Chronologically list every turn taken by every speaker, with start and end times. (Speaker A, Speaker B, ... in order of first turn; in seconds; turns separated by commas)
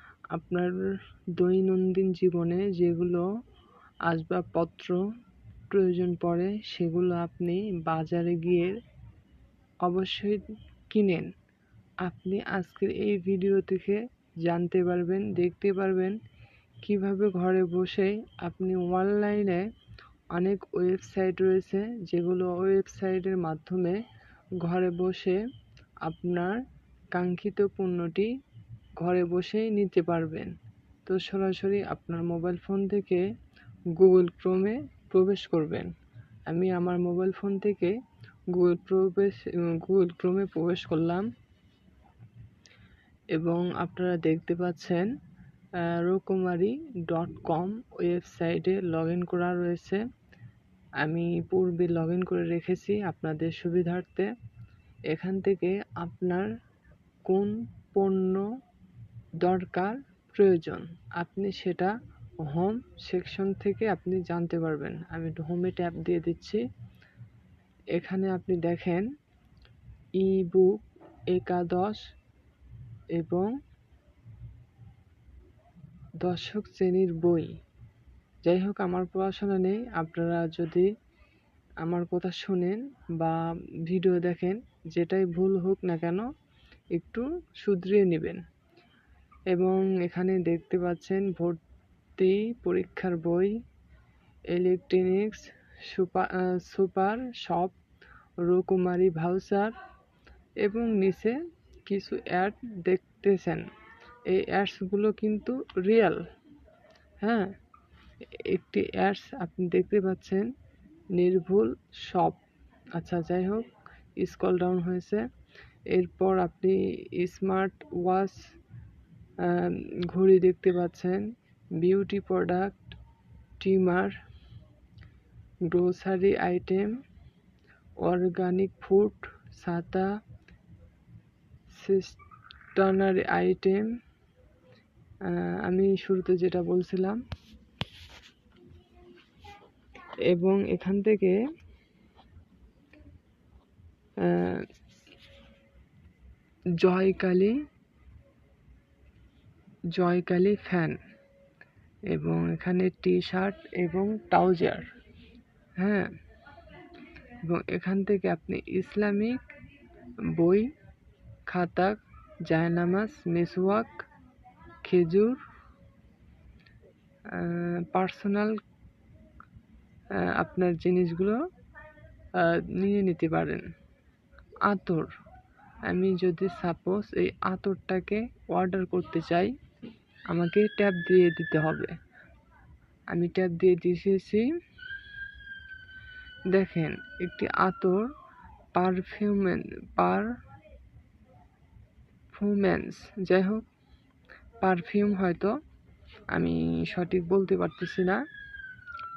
Speaker A: 0.3-3.3, Speaker A: 4.0-5.1, Speaker A: 5.7-8.8, Speaker A: 9.8-11.3, Speaker A: 12.0-16.2, Speaker A: 16.8-19.6, Speaker A: 20.3-24.0, Speaker A: 24.6-25.4, Speaker A: 26.0-26.6, Speaker A: 27.1-28.3, Speaker A: 29.0-30.5, Speaker A: 31.1-33.2, Speaker A: 33.9-35.9, Speaker A: 36.5-38.0, Speaker A: 38.5-41.3, Speaker A: 43.3-45.1, Speaker A: 45.8-50.0, Speaker A: 51.0-54.3, Speaker A: 55.1-56.5, Speaker A: 57.2-58.5, Speaker A: 59.4-66.6, Speaker A: 67.9-69.1, Speaker A: 70.2-72.0, Speaker A: 73.1-73.5, Speaker A: 76.2-77.6, Speaker A: 78.4-80.9, Speaker A: 81.8-86.3, Speaker A: 86.9-88.4, Speaker A: 89.5-91.6, Speaker A: 92.2-93.6, Speaker A: 94.5-97.8, Speaker A: 98.4-99.7, Speaker A: 100.6-103.7, Speaker A: 104.3-106.3, Speaker A: 107.2-107.5, Speaker A: 108.3-110.5, Speaker A: 111.1-112.4, Speaker A: 112.9-115.3, Speaker A: 115.9-118.5, Speaker A: 119.4-123.0, Speaker A: 123.6-124.1, Speaker A: 125.7-127.0, Speaker A: 128.0-130.1, Speaker A: 131.7-132.2, Speaker A: 132.7-134.0, Speaker A: 135.2-137.2, Speaker A: 140.3-141.4, Speaker A: 144.2-144.7, Speaker A: 146.8-147.6, Speaker A: 149.9-151.0, Speaker A: 152.1-154.9, Speaker A: 155.8-156.1, Speaker A: 157.4-159.4, Speaker A: 160.2-160.7, Speaker A: 161.5-164.0, Speaker A: 164.8-165.4, Speaker A: 167.3-168.6, Speaker A: 170.1-171.4, Speaker A: 172.3-173.7, Speaker A: 174.6-175.1, Speaker A: 175.8-179.6, Speaker A: 180.3-182.0, Speaker A: 183.1-184.5, Speaker A: 186.5-188.1, Speaker A: 188.7-190.3, Speaker A: 192.3-193.7, Speaker A: 194.6-195.6, Speaker A: 196.3-198.2